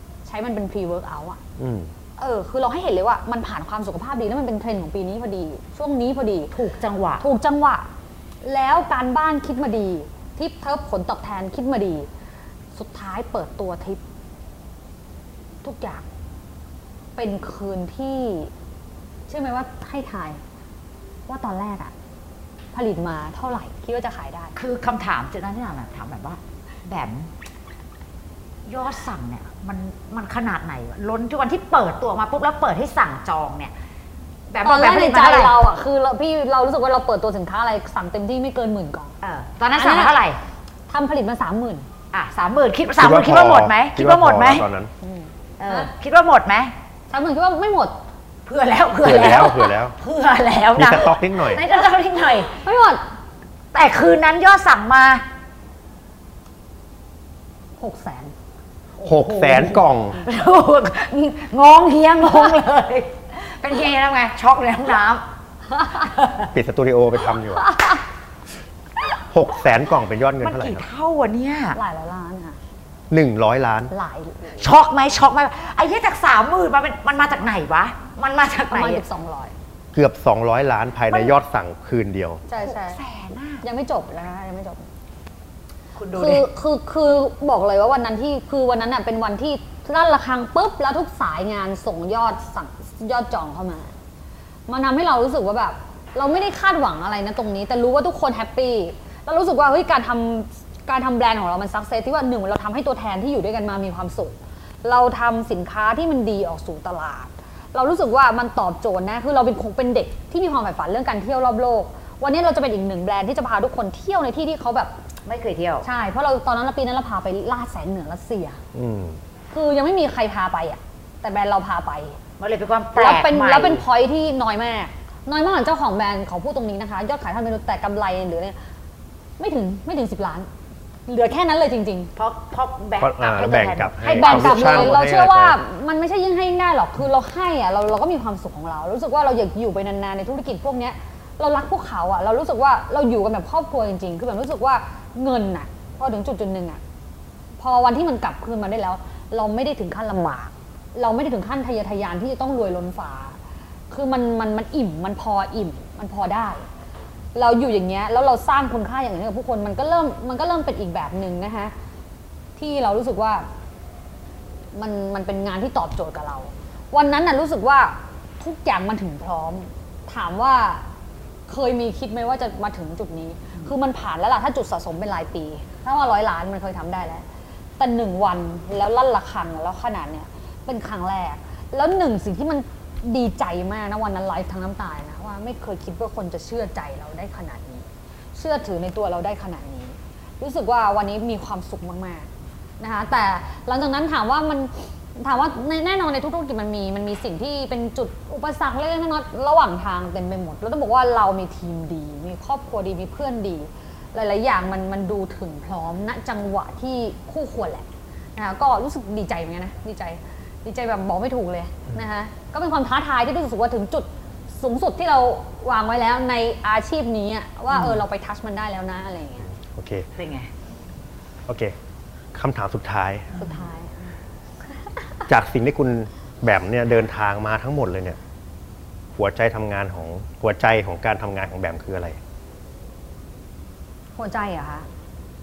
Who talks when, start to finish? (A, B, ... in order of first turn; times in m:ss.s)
0:00.2-0:01.4 A
0:01.6-0:01.9 B
0:02.2-0:06.5 A
0:06.5-0:07.2 C
0:07.2-0:07.9 A
0:08.4-0:12.1 A
0:12.7-0:14.0 A
0:15.6-0:16.0 A
0:17.2-0:18.5 A
0:19.3-0:20.4 A
0:21.3-0:21.9 A
0:22.7-0:24.5 A
0:24.5-0:27.3 C
0:28.6-0:33.7 C
0:34.5-0:35.6 C
0:34.6-0:39.1 A
0:39.2-0:40.4 C
0:39.7-0:40.2 A
0:40.9-0:41.9 A
0:42.1-0:44.6 C
0:43.0-0:44.9 B
0:45.0-0:45.9 A
0:45.6-0:46.7 C
0:47.1-0:48.0 A
0:48.4-0:52.5 C
0:49.0-0:49.9 B
0:50.8-0:51.6 B
0:52.6-0:53.0 A
0:53.7-0:55.2 C
0:57.8-0:58.3 A
0:59.0-1:05.2 C
0:59.0-1:00.2 B
1:05.9-1:06.5 C
1:06.5-1:07.7 B
1:07.6-1:08.0 A
1:09.3-1:10.8 B
1:10.4-1:11.8 C
1:11.7-1:12.6 A
1:13.1-1:13.9 B
1:13.9-1:14.6 A
1:14.6-1:19.0 C
1:18.7-1:19.5 A
1:19.9-1:22.4 B
1:22.5-1:23.0 A
1:22.6-1:23.6 C
1:23.6-1:24.8 A
1:25.9-1:26.5 C
1:26.1-1:33.9 A
1:34.7-1:54.9 A
1:55.2-1:55.9 C
1:55.8-1:58.6 A
1:58.7-1:59.2 B
1:59.5-2:02.2 A
2:02.4-2:03.8 C
2:03.0-2:08.6 A
2:09.4-2:10.5 A
2:11.1-2:12.1 A
2:12.2-2:15.0 C
2:13.0-2:15.6 B
2:14.0-2:26.8 A
2:27.6-2:33.4 A
2:33.9-2:36.6 A
2:37.3-2:41.7 A
2:42.6-2:43.5 A
2:44.7-2:50.8 A
2:51.5-2:57.2 A
2:57.8-3:12.3 A
3:12.8-3:39.5 A
3:39.6-3:40.1 B
3:40.2-3:40.5 C
3:41.5-3:41.7 B
3:42.3-3:43.3 B
3:43.4-3:43.7 C
3:43.4-3:44.1 A
3:45.3-3:48.2 B
3:49.2-3:52.2 B
3:54.2-3:54.9 A